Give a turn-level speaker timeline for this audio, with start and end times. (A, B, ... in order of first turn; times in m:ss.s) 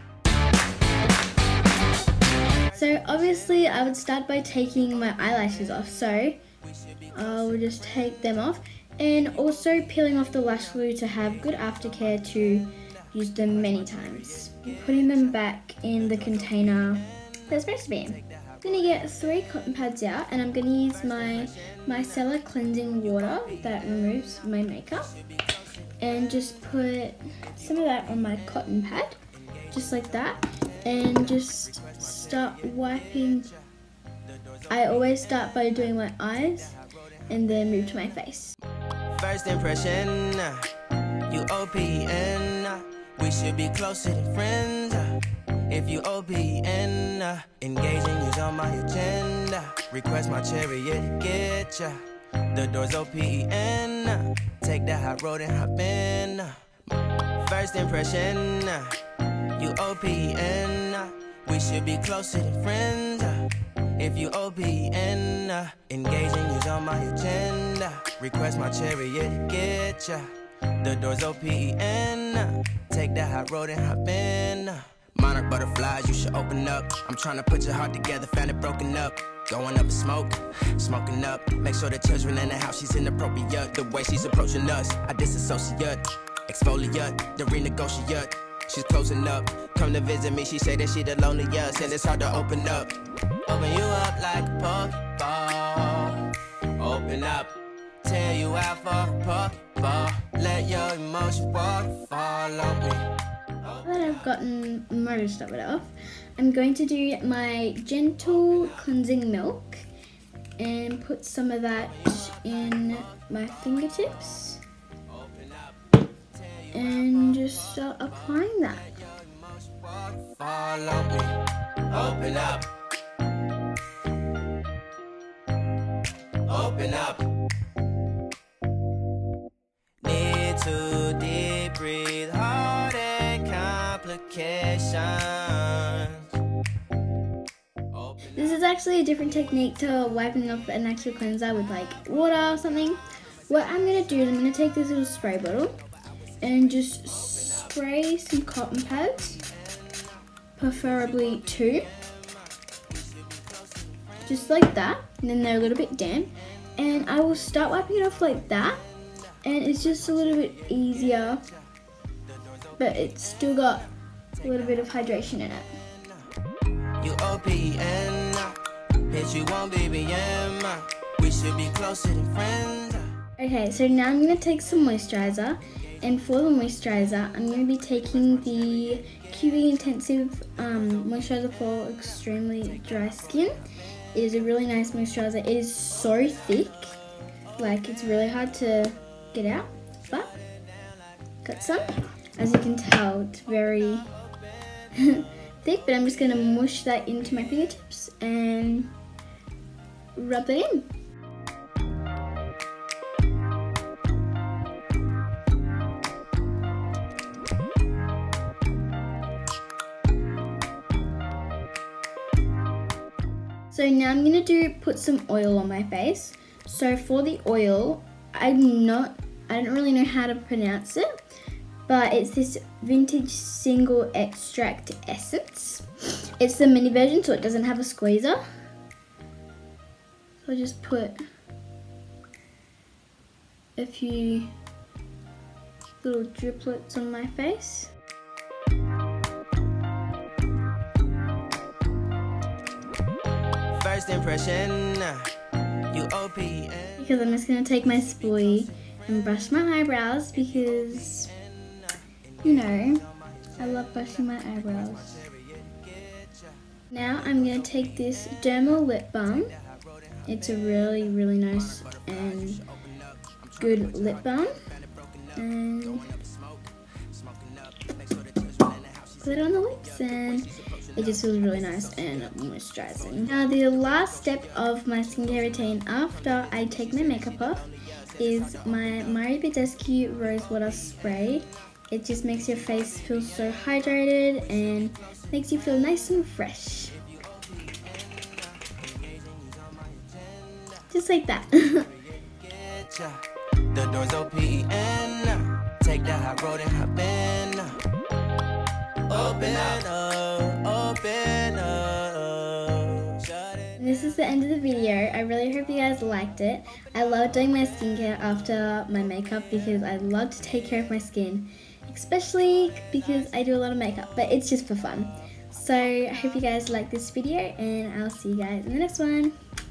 0:02.7-0:06.4 A
0:03.1-0:03.6 B
0:06.8-0:07.3 B
0:07.1-0:25.2 A
0:13.7-0:14.2 B
0:16.2-0:17.0 B
0:18.1-0:19.1 B
0:21.2-0:21.6 B
0:23.2-0:23.9 B
0:25.2-0:25.8 B
0:26.0-0:29.2 A
0:29.7-0:33.5 A
0:31.2-0:33.5 B
0:34.4-0:35.6 B
0:34.7-0:36.8 A
0:37.3-0:38.6 A
0:39.1-0:56.6 B
0:57.4-1:43.8 B
1:43.8-1:49.8 A
1:48.4-1:48.7 B
1:50.6-1:54.6 A
1:52.2-1:53.2 B
1:55.1-1:55.8 B
1:56.3-1:58.1 B
1:56.7-1:59.0 A
1:58.8-2:02.7 B
2:06.4-2:07.3 B
2:10.0-2:16.3 B
2:17.9-2:18.6 B
2:18.3-2:25.8 A
2:26.4-2:29.4 A
2:27.4-2:27.6 B
2:30.6-2:31.9 A
2:32.9-2:34.1 B
2:34.2-2:38.8 A
2:39.4-2:41.5 A
2:40.1-2:41.5 B
2:42.5-2:42.8 B
2:42.8-2:43.9 A
2:44.4-2:45.7 A
2:47.0-2:53.1 B
2:53.4-3:03.6 A
2:58.5-2:59.0 B
3:04.1-3:07.0 A
3:07.5-3:10.4 A
3:11.4-3:14.2 A
3:14.9-3:18.9 A
3:20.2-3:20.9 A
3:33.7-3:41.1 A
3:41.9-3:45.9 A
3:46.4-3:48.4 A
3:50.4-3:51.2 A
3:53.8-3:54.5 A
3:56.0-3:57.9 A
4:03.7-4:05.3 B
4:05.9-4:07.2 B
4:07.0-4:11.3 A
4:08.2-4:08.5 B
4:10.9-4:13.5 B
4:12.4-4:13.0 A
4:13.6-4:15.3 A
4:14.9-4:16.6 B
4:16.9-4:19.5 A
4:19.6-4:20.2 B
4:20.2-4:22.6 A
4:21.5-4:32.2 B
4:23.6-4:24.7 A
4:25.3-4:26.2 A
4:29.2-4:47.0 A
4:36.5-4:39.0 B
4:47.0-4:50.8 B
4:50.9-4:51.9 A
4:52.2-4:57.8 B
4:59.0-5:03.8 B
5:03.8-5:19.3 A